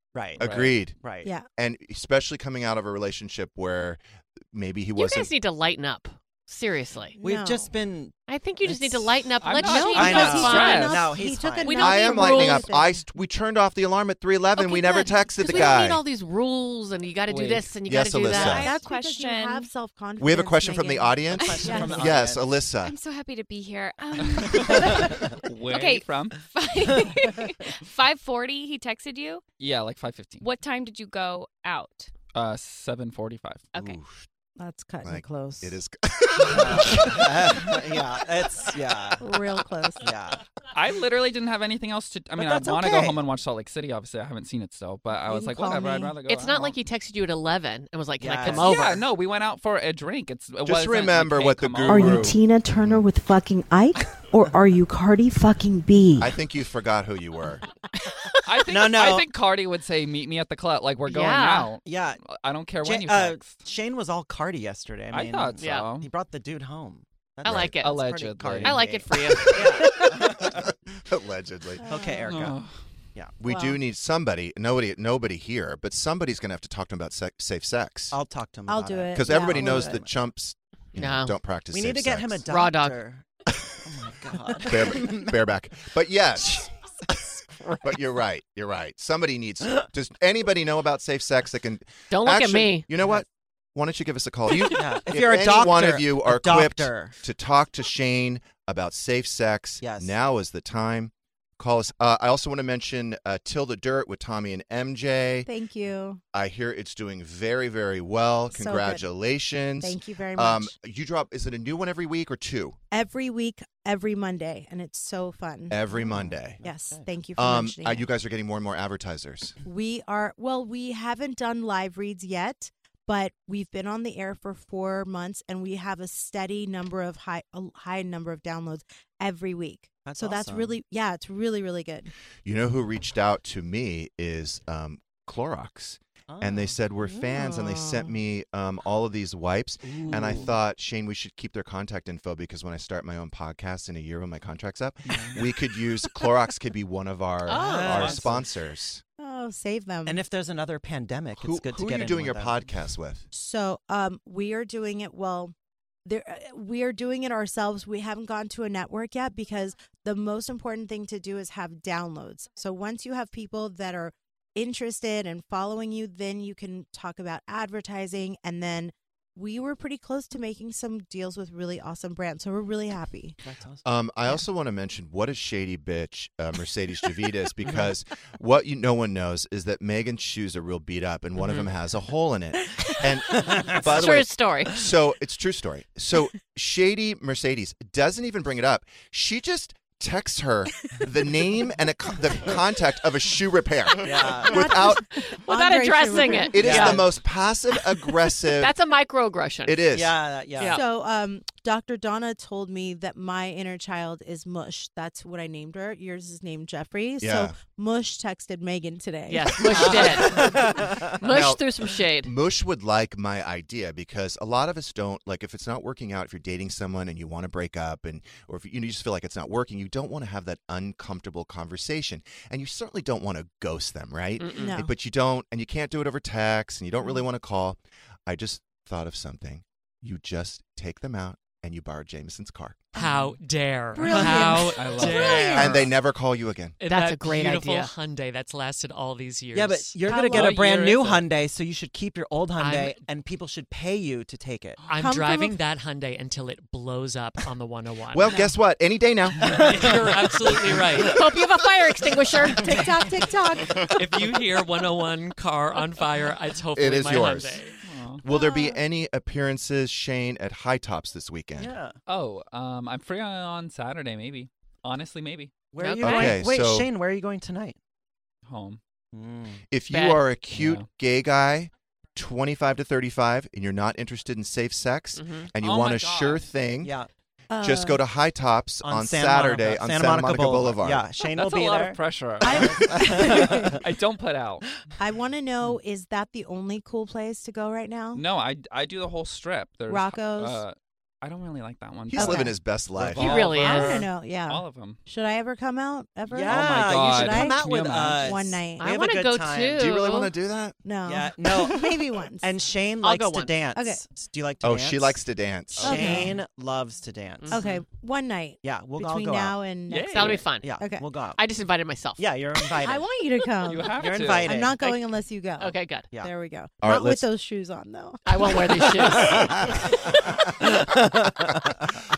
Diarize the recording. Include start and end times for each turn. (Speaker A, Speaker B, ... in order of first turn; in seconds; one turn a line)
Speaker A: 0.1-1.3
Speaker B: 0.4-0.8
Speaker C: 0.4-1.0
Speaker C: 1.6-5.3
Speaker D: 5.0-7.2
Speaker E: 7.2-7.7
Speaker A: 7.2-12.0
Speaker D: 8.3-10.9
Speaker B: 9.4-11.1
Speaker E: 9.6-13.0
Speaker D: 11.6-12.7
Speaker C: 11.8-16.0
Speaker D: 14.6-18.7
Speaker B: 17.3-17.7
Speaker C: 17.8-18.7
Speaker F: 18.2-19.7
Speaker E: 18.6-21.8
Speaker C: 20.2-22.9
Speaker A: 21.4-22.6
Speaker F: 21.4-21.9
Speaker F: 22.8-29.4
Speaker B: 24.3-26.4
Speaker B: 29.6-30.4
Speaker F: 30.4-32.1
Speaker B: 32.3-33.7
Speaker F: 33.7-34.0
Speaker C: 33.7-34.2
Speaker E: 34.6-35.8
Speaker C: 35.0-37.6
Speaker A: 36.5-39.3
Speaker E: 39.2-40.1
Speaker A: 40.0-40.4
Speaker B: 40.7-46.8
Speaker A: 42.4-43.2
Speaker E: 45.2-46.1
Speaker D: 46.2-49.0
Speaker A: 48.2-48.9
Speaker B: 48.5-52.4
Speaker C: 50.6-53.0
Speaker E: 51.9-56.3
Speaker C: 56.2-57.6
Speaker B: 58.4-63.6
Speaker A: 58.6-59.3
Speaker D: 61.1-61.7
Speaker A: 61.8-62.2
Speaker A: 62.8-70.6
Speaker B: 65.1-66.1
Speaker D: 65.6-65.9
Speaker C: 67.4-67.7
Speaker D: 67.4-68.0
Speaker B: 67.8-68.9
Speaker D: 68.6-69.9
Speaker C: 70.4-71.8
Speaker E: 71.8-72.3
Speaker A: 71.8-72.6
Speaker B: 72.3-72.8
Speaker C: 73.4-78.2
Speaker E: 73.4-73.8
Speaker A: 78.1-80.2
Speaker E: 78.7-80.0
Speaker C: 79.1-82.5
Speaker D: 80.9-81.3
Speaker A: 81.7-85.4
Speaker D: 82.5-83.0
Speaker C: 84.7-86.7
Speaker A: 86.4-86.7
Speaker C: 87.8-105.5
Speaker D: 92.1-92.9
Speaker A: 93.0-93.2
Speaker A: 94.7-97.2
Speaker A: 99.8-100.1
Speaker E: 105.5-106.2
Speaker C: 106.3-112.8
Speaker E: 108.5-109.0
Speaker E: 109.8-110.7
Speaker E: 112.9-116.0
Speaker C: 115.7-116.6
Speaker A: 115.9-117.1
Speaker E: 116.6-118.1
Speaker C: 117.3-119.6
Speaker E: 119.6-132.1
Speaker A: 130.0-130.8
Speaker C: 132.4-149.0
Speaker A: 136.3-136.8
Speaker E: 137.0-138.1
Speaker A: 139.8-140.5
Speaker A: 145.1-145.6
Speaker D: 147.4-148.1
Speaker A: 147.5-148.5
Speaker B: 147.9-148.3
Speaker E: 149.2-150.2
Speaker A: 150.0-152.6
Speaker C: 151.4-153.2
Speaker E: 153.3-155.5
Speaker E: 156.1-173.4
Speaker A: 173.4-173.8
Speaker C: 173.8-195.0
Speaker A: 177.6-177.9
Speaker A: 183.4-183.8
Speaker D: 183.8-184.8
Speaker A: 194.0-194.6
Speaker E: 194.5-196.7
Speaker D: 195.3-197.1
Speaker C: 196.5-198.7
Speaker A: 196.6-197.1
Speaker D: 198.3-199.8
Speaker C: 199.6-200.2
Speaker A: 199.9-200.8
Speaker E: 200.7-210.0
Speaker C: 207.2-207.5
Speaker D: 209.3-212.3
Speaker C: 209.7-210.3
Speaker A: 209.8-211.2
Speaker C: 211.2-232.9
Speaker D: 224.4-224.7
Speaker E: 224.6-224.9
Speaker G: 232.9-235.9
Speaker B: 233.0-233.4
Speaker E: 233.9-235.8
Speaker B: 234.1-235.6
Speaker C: 235.5-236.8
Speaker G: 236.8-240.0
Speaker D: 236.8-237.9
Speaker A: 239.5-244.8
Speaker E: 240.0-240.6
Speaker B: 240.2-241.3
Speaker G: 242.6-242.9
Speaker G: 244.8-248.5
Speaker E: 244.9-245.6
Speaker C: 248.1-249.9
Speaker G: 249.4-251.2
Speaker A: 249.5-250.2
Speaker D: 251.0-252.8
Speaker E: 252.6-254.0
Speaker G: 253.9-257.8
Speaker C: 256.7-257.6
Speaker B: 257.8-258.2
Speaker C: 258.2-261.8
Speaker E: 258.3-258.8
Speaker A: 261.6-262.0
Speaker B: 262.1-265.5
Speaker A: 265.7-267.8
Speaker D: 265.8-266.4
Speaker C: 266.0-266.9
Speaker B: 268.4-268.8
Speaker A: 269.1-269.6
Speaker C: 269.7-276.9
Speaker B: 270.5-270.9
Speaker D: 275.1-275.5
Speaker B: 275.6-276.4
Speaker A: 276.8-277.1
Speaker E: 277.5-278.0
Speaker C: 277.6-281.0
Speaker A: 278.8-283.8
Speaker B: 281.2-284.6
Speaker E: 282.4-283.7
Speaker E: 285.0-288.2
Speaker B: 288.1-295.0
Speaker E: 289.9-290.6
Speaker C: 292.1-293.4
Speaker E: 292.1-292.6
Speaker D: 293.1-294.1
Speaker E: 293.3-298.9
Speaker A: 296.3-299.9
Speaker B: 296.4-298.4
Speaker D: 298.8-300.3
Speaker C: 299.8-300.8
Speaker E: 300.8-302.5
Speaker A: 301.0-305.2
Speaker D: 303.0-303.6
Speaker E: 303.7-304.0
Speaker C: 304.6-306.3
Speaker A: 305.8-307.7
Speaker E: 305.8-306.4
Speaker D: 307.4-307.8
Speaker E: 307.5-311.1
Speaker A: 308.6-311.4
Speaker B: 309.9-310.4
Speaker D: 310.1-310.8
Speaker D: 311.4-312.3
Speaker A: 312.2-313.1
Speaker E: 312.8-318.9
Speaker B: 313.6-314.7
Speaker A: 313.8-314.8
Speaker D: 315.6-316.1
Speaker C: 316.8-317.3
Speaker D: 318.2-319.8
Speaker A: 318.9-321.9